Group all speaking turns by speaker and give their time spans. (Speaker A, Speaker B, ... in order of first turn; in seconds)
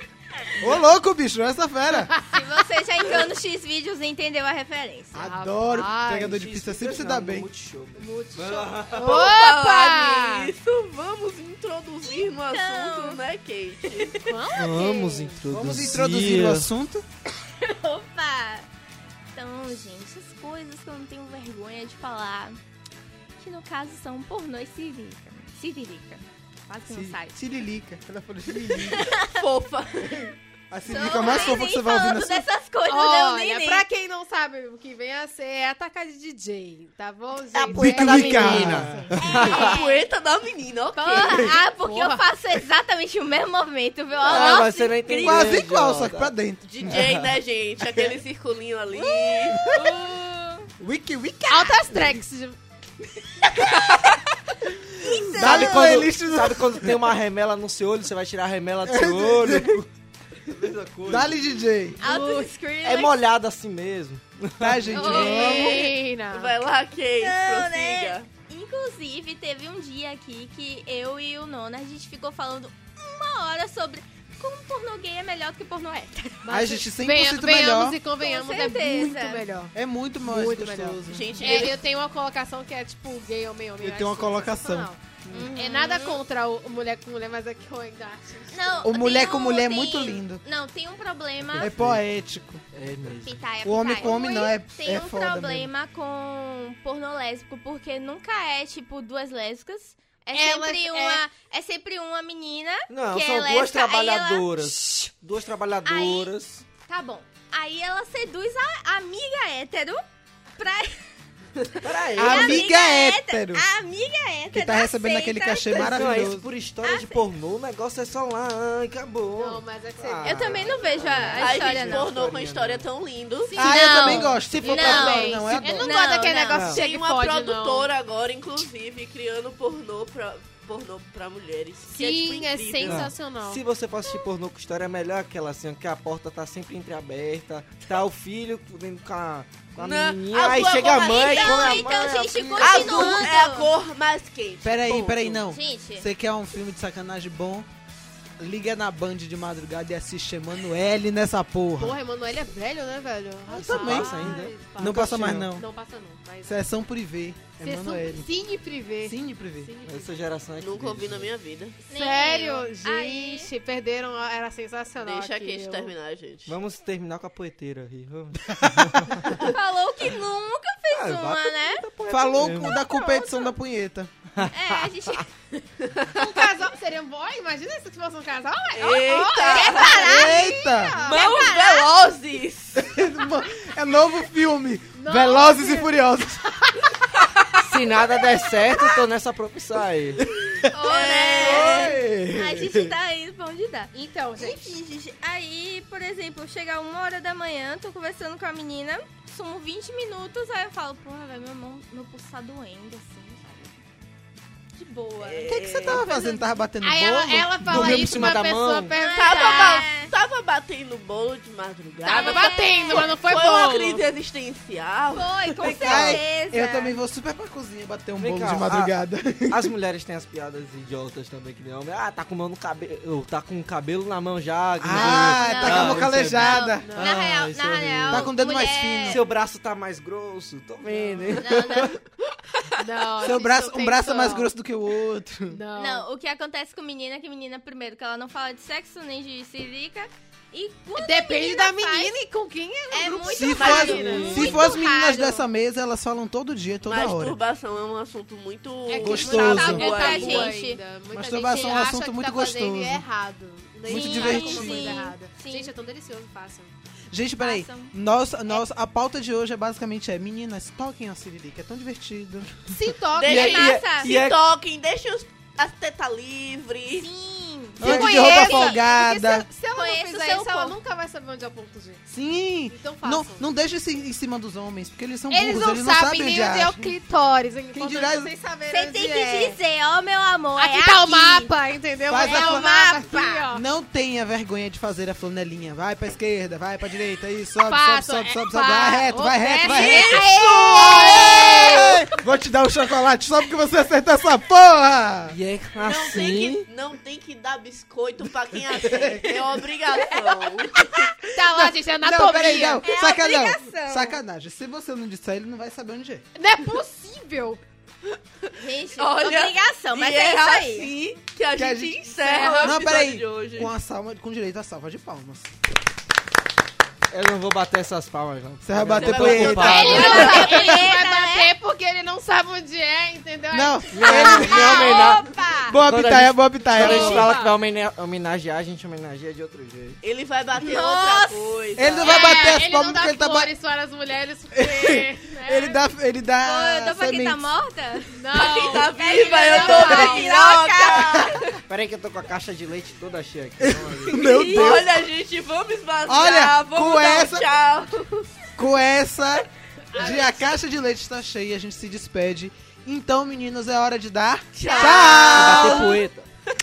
Speaker A: 0.6-2.1, 5.1-7.5, 15.5-17.0, 26.9-29.1, 30.7-32.5, 37.7-39.4, 44.5-47.2, 49.6-49.9, 50.8-52.2, 54.7-57.0, 58.9-59.8, 61.1-62.0, 64.6-65.8, 76.5-78.0, 79.7-81.7, 83.8-84.9, 88.8-90.4, 91.6-92.6, 93.6-95.7, 112.2-113.7, 114.5-116.5, 123.6-125.9, 142.7-143.1, 144.6-147.7, 148.4-152.0, 153.6-155.7, 156.4-158.3, 159.0-159.8, 168.5-169.4, 172.1-174.1, 180.0-181.0, 182.8-186.9, 190.4-190.8, 191.5-192.8, 205.5-208.3, 215.6-219.7, 224.8-226.9, 228.1-229.2, 233.2-235.6, 243.2-247.4, 249.0-249.9, 251.1-253.0, 253.9-255.0, 257.1-262.8, 267.8-269.5, 272.1-277.0, 277.7-278.3, 282.1-282.7, 283.5-295.4, 298.8-299.5, 300.8-306.2, 311.5-312.0, 312.6-315.5, 318.6-320.6, 323.5-324.9, 325.6-327.3, 331.8-333.5, 334.6-337.5, 343.6-345.0, 346.1-347.5, 348.6-355.9
Speaker B: 2.0-2.5, 5.2-6.7, 8.0-10.5, 14.2-15.4, 32.9-39.4, 41.1-42.3, 51.5-52.6, 65.0-66.6, 76.5-89.0, 100.3-101.3, 119.4-121.2, 123.5-127.9, 131.8-133.6, 151.8-156.7, 157.6-160.3, 161.8-165.9, 172.9-173.5, 176.1-181.3, 184.9-185.9, 193.9-194.7, 206.8-209.9, 212.1-214.1, 226.8-227.2, 230.8-231.4, 232.8-234.5, 235.5-236.1, 240.9-244.3, 248.9-256.7, 262.7-263.8, 267.8-272.0, 272.7-273.5, 275.3-279.6, 280.6-283.6, 287.6-292.1, 301.3-302.9, 306.4-307.6, 312.2-312.8, 319.7-325.2, 326.8-327.5, 332.1-335.8, 338.1-340.2, 349.9-350.5
Speaker C: 2.3-5.1, 12.0-13.2, 13.8-14.8, 17.4-18.7, 19.4-22.6, 23.4-27.4, 28.7-29.4, 30.9-33.9, 37.9-38.5, 39.1-40.0, 41.0-45.6, 48.9-50.7, 55.0-56.0, 62.0-63.2, 64.9-65.9, 67.2-76.5, 78.2-79.5, 85.3-86.2, 88.5-91.8, 93.2-105.1, 105.8-106.3, 106.8-110.0, 110.6-111.1, 111.6-116.2, 116.8-117.2, 120.2-122.1, 123.5-126.7, 141.1-143.7, 145.4-146.1, 161.9-163.5, 169.4-171.8, 174.5-175.3, 179.4-180.4, 181.1-181.9, 190.7-203.8, 204.8-206.6, 209.0-210.1, 212.1-213.2, 215.1-217.0, 225.3-229.2, 231.3-232.0, 235.7-242.1, 242.9-245.4, 249.0-250.8, 253.9-255.7, 257.4-257.9, 263.3-264.1, 266.9-268.8, 269.7-270.8, 278.7-281.5, 282.2-283.5, 289.6-292.1, 300.0-300.4, 302.8-304.2, 308.6-310.9, 319.7-321.6, 324.3-325.8, 330.6-332.6, 336.4-341.6, 344.3-344.8, 354.6-356.1
Speaker D: 6.6-9.3, 14.5-16.7, 37.5-39.7, 44.2-47.3, 55.3-59.9, 60.5-61.4, 62.8-65.5, 91.4-92.1, 92.7-93.4, 102.9-106.7, 111.8-112.7, 115.7-122.9, 126.5-126.8, 132.8-143.2, 153.5-155.5, 159.8-161.3, 166.5-169.4, 170.9-172.8, 174.4-175.2, 187.6-190.3, 191.4-191.9, 207.6-208.9, 215.9-216.2, 218.2-219.0, 219.5-228.4, 229.1-232.0, 263.2-264.4, 267.9-268.4, 295.3-296.7, 317.1-320.8, 323.9-330.0, 341.6-344.2, 355.3-356.3
Speaker E: 8.9-14.5, 29.4-30.3, 31.2-31.6, 39.4-41.6, 46.7-49.6, 65.2-68.3, 81.1-81.8, 121.3-123.5, 126.6-133.1, 139.8-142.0, 142.6-145.4, 160.6-161.8, 165.0-166.6, 178.7-180.1, 181.0-183.0, 190.8-191.8, 205.2-206.1, 209.1-215.9, 243.6-244.7, 246.8-250.6, 263.2-267.1, 295.8-300.8, 308.4-313.8, 319.0-320.4, 330.0-332.2, 338.3-341.3, 344.2-348.3, 354.6-355.6